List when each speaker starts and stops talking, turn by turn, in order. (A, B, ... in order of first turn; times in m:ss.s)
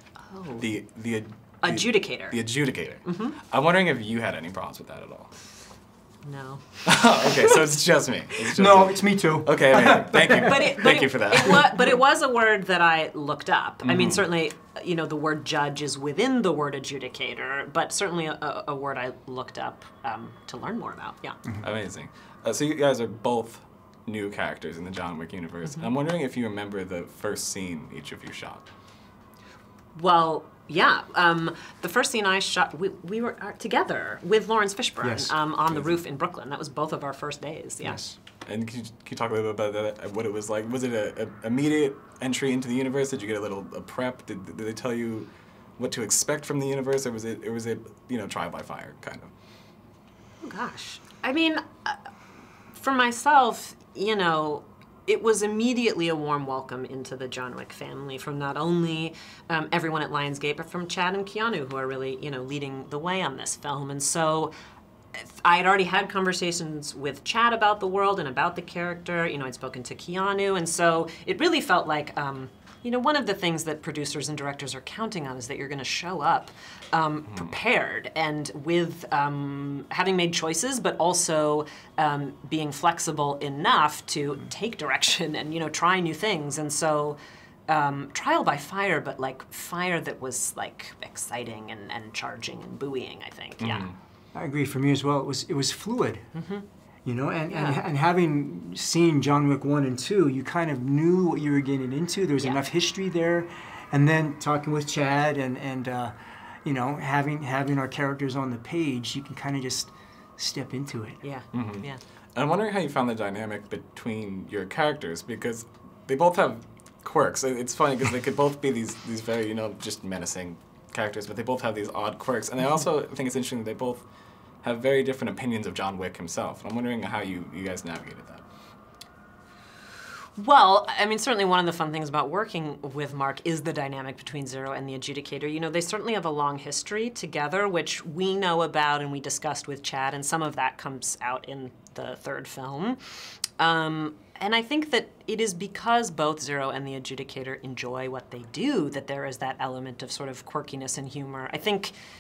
0:00.3-0:00.7 A
0:00.6-0:05.3 B
0:01.6-0:02.5 A
0:03.0-0:03.4 A
0:06.2-0:07.6 A
0:06.8-0:11.7 B
0:08.5-0:10.7 C
0:10.4-0:21.4 A
0:13.8-0:14.2 B
0:21.6-0:28.7 B
0:30.0-0:38.0 A
0:35.0-0:35.3 C
0:37.8-0:38.2 C
0:38.5-0:49.3 B
0:50.4-0:52.0 A
0:52.7-1:04.5 A
1:05.2-1:33.9 A
1:33.6-1:34.0 B
1:34.3-1:36.3 C
1:36.3-1:36.6 A
1:37.0-1:51.2 C
1:37.5-1:37.8 A
1:51.2-1:52.0 A
1:51.5-2:04.0 B
2:04.6-2:08.4 B
2:10.4-2:32.0 A